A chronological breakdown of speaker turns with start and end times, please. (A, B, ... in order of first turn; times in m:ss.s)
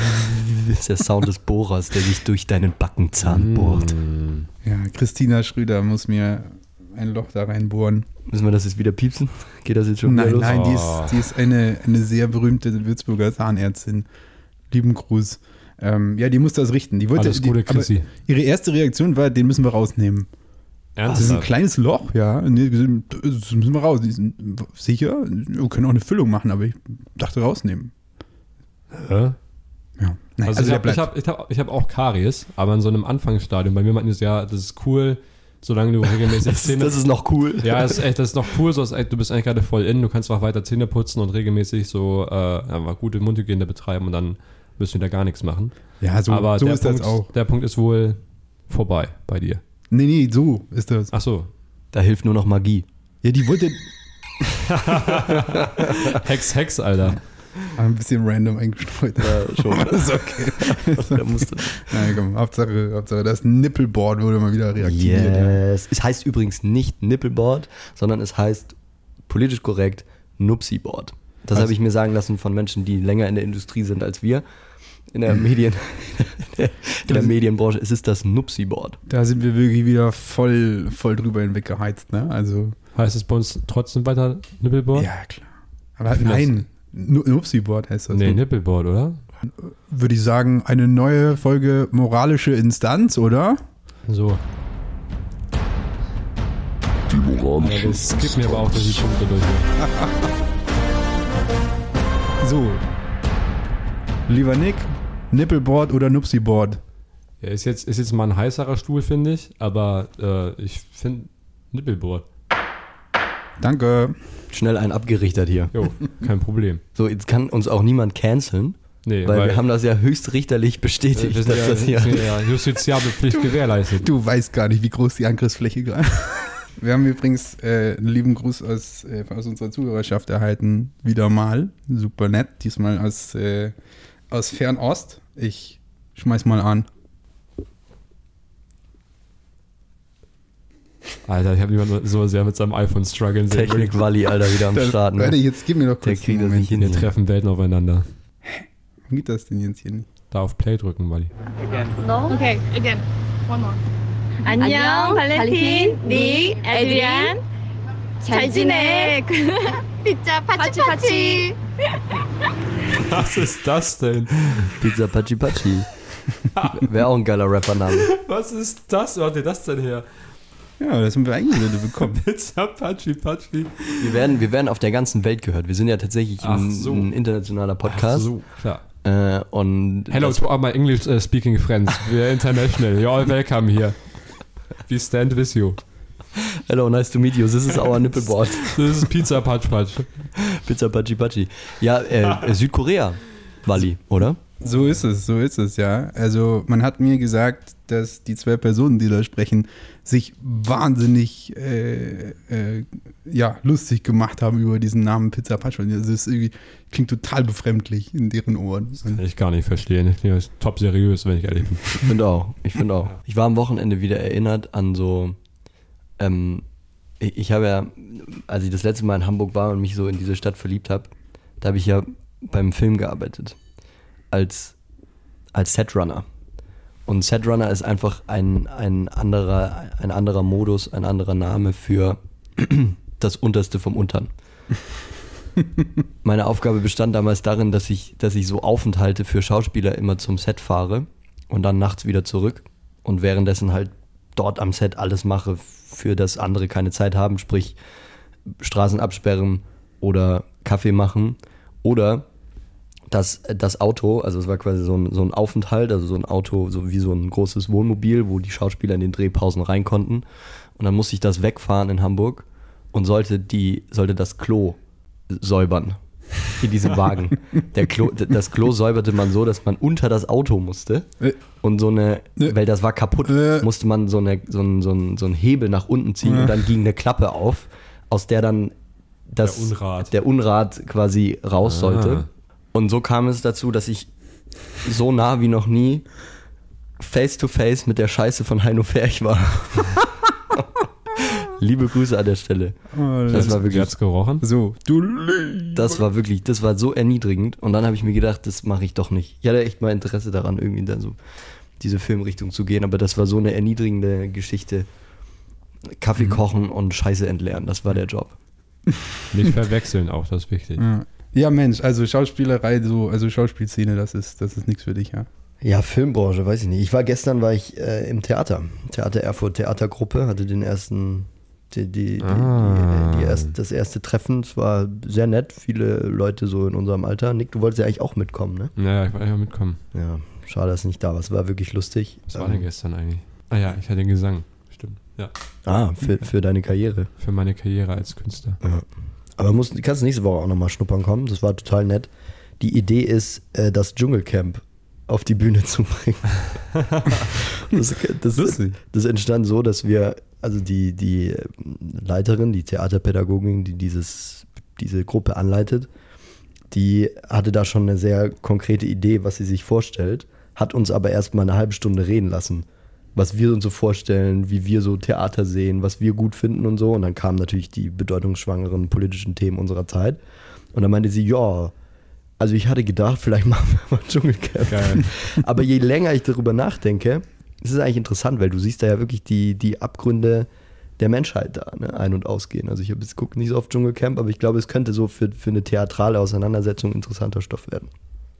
0:00.3-0:03.9 A
0:03.2-0:04.5 B
0:04.6-0:08.0 C
0:08.3-0:10.6 A
0:10.0-0:14.1 C
0:10.4-0:11.2 B
0:14.7-0:20.3 C
0:17.2-0:18.1 B
0:21.0-0:21.5 B
0:21.0-0:27.9 C
0:28.9-0:29.4 B
0:30.0-0:31.1 C
0:30.4-0:37.0 B
0:36.4-0:38.0 A
0:37.6-0:45.7 B
0:46.0-0:47.3 C
0:46.3-0:49.6 B
0:49.9-0:51.1 C
0:51.1-0:51.5 B
0:51.9-0:52.8 A
0:53.2-0:53.8 C
0:54.8-0:57.2 B
0:57.7-1:05.6 C
0:59.2-1:02.0 A
1:04.8-1:08.8 A
1:09.3-1:14.4 A
1:15.1-1:19.0 A
1:17.1-1:17.3 C
1:19.1-1:22.7 C
1:22.9-1:25.1 B
1:24.9-1:25.4 C
1:26.0-1:28.4 C
1:26.1-1:26.6 B
1:28.1-1:29.2 B
1:29.4-1:33.6 C
1:34.1-1:34.4 B
1:37.5-1:39.7 B
1:39.8-1:40.3 C
1:42.4-1:42.8 C
1:44.3-1:46.8 C
1:47.4-1:52.2 B
1:53.6-1:54.2 C
1:54.5-1:55.7 A
1:55.7-1:56.8 B
1:56.9-2:02.3 A
1:59.0-1:59.6 B
2:01.1-2:04.1 B
2:04.0-2:13.7 C
2:14.3-2:16.9 C
2:21.2-2:24.0 B
2:23.5-2:25.4 A
2:24.7-2:27.0 C
2:26.0-2:27.1 A
2:26.8-2:28.1 B
2:28.4-2:30.1 C
2:30.3-2:31.3 B
2:31.7-2:33.8 D
2:32.0-2:32.6 E
2:34.4-2:37.4 E
2:34.5-2:37.4 D
2:38.2-2:41.6 E
2:38.3-2:39.2 D
2:40.5-2:41.5 D
2:43.0-2:44.9 B
2:44.8-2:45.9 A
2:46.5-2:46.9 B
2:46.7-2:48.1 A
2:48.0-2:50.1 B
2:50.8-2:52.2 C
2:51.8-2:54.2 B
2:54.0-2:58.3 A
2:56.4-2:57.1 B
2:57.8-2:58.8 B
2:59.0-3:00.4 A
3:00.1-3:05.8 B
3:06.4-3:08.7 A
3:08.6-3:10.1 B
3:10.4-3:14.4 A
3:14.6-3:29.2 C
3:29.0-3:32.1 B
3:32.0-3:35.4 A
3:36.2-3:36.6 A
3:37.2-3:43.6 A
3:44.3-3:44.7 A
3:45.5-3:46.2 A
3:47.1-3:54.3 A
3:56.2-4:07.8 A
4:08.6-4:12.2 A
4:13.1-4:20.2 A
4:20.8-4:24.8 A
4:25.3-4:31.1 A
4:31.6-4:38.7 A
4:33.2-4:33.7 C
4:36.2-4:36.7 C
4:39.3-4:44.1 A
4:39.4-4:40.1 B
4:41.6-4:42.2 B
4:44.8-4:46.0 A
4:47.0-4:50.0 A
4:51.3-4:53.9 A
4:52.9-4:53.9 C
4:53.3-4:54.4 B
4:54.4-4:56.0 C
4:55.7-5:01.2 A
5:01.8-5:04.9 A
5:06.0-5:08.4 A
5:09.3-5:10.8 B
5:10.8-5:15.3 C
5:15.6-5:28.7 A
5:22.2-5:23.5 B
5:28.8-5:29.8 B
5:29.9-5:32.6 A
5:32.3-5:35.3 B
5:35.6-5:37.1 A
5:37.2-5:38.6 B
5:39.4-5:46.4 A
5:46.9-5:47.2 B
5:47.5-5:55.9 A
5:56.7-6:10.2 A
6:10.7-6:11.7 A
6:12.4-6:20.5 A
6:14.7-6:15.0 B
6:21.0-6:27.9 A